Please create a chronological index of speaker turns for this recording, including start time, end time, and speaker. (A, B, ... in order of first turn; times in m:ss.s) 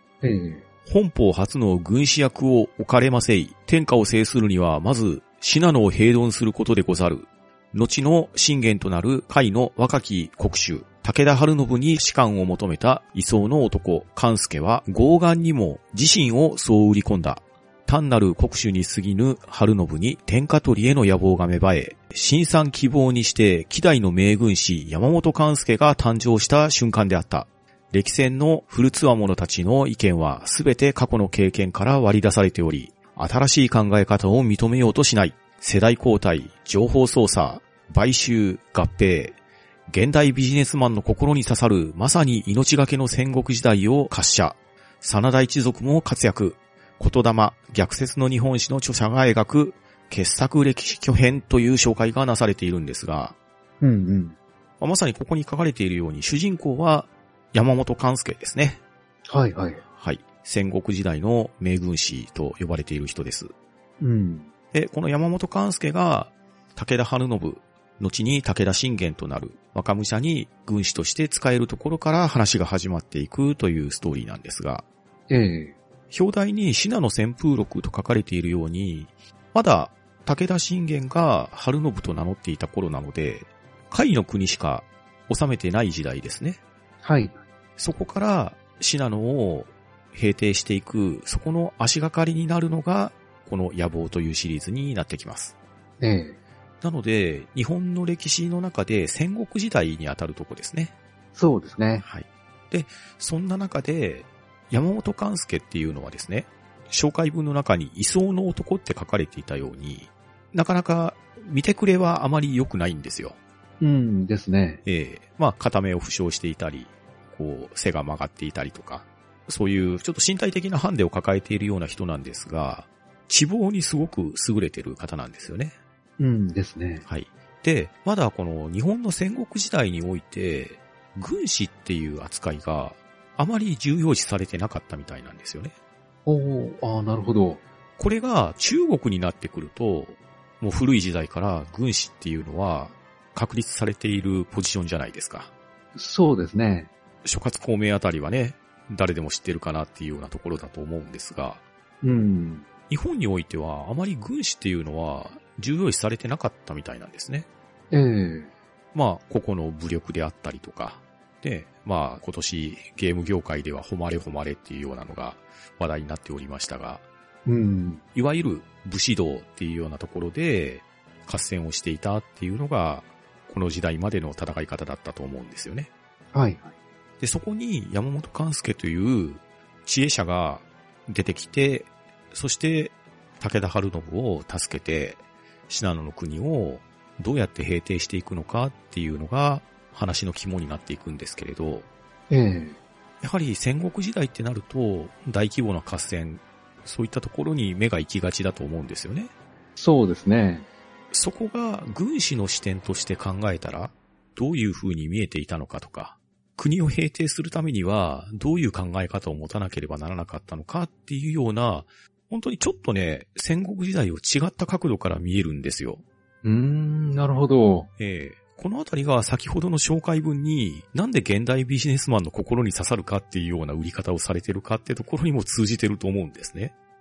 0:00.2-0:00.6 A
0:00.9-0:39.4 B
0:39.9-0:53.4 B
0:53.8-0:54.4 A
0:54.8-0:58.8 B
0:59.3-0:59.8 A
1:00.0-1:03.5 B
1:04.0-1:04.5 A
1:04.7-1:14.8 B
1:15.3-1:15.8 A
1:16.1-1:26.6 B
1:27.0-1:27.4 A
1:27.8-1:35.6 B
1:36.0-1:36.4 A
1:36.8-1:40.9 B
1:41.4-1:42.0 A
1:42.0-1:53.4 B
1:53.8-1:54.8 A
1:54.8-2:05.7 B
2:06.2-2:07.0 A
2:07.1-2:15.7 B
2:16.3-2:17.6 A
2:18.0-2:25.5 B
2:26.0-2:26.9 A
2:27.2-2:31.6 B
2:32.0-2:32.7 A
2:32.9-2:37.5 B
2:37.9-2:38.5 A
2:38.9-2:47.0 B
2:47.5-2:48.0 A
2:48.2-2:55.9 B
2:56.3-2:56.7 A
2:57.2-3:11.9 B
3:12.3-3:12.8 A
3:13.2-3:19.3 B
3:19.8-3:20.7 A
3:21.1-3:36.0 B
3:36.4-3:37.9 A
3:38.0-3:46.7 B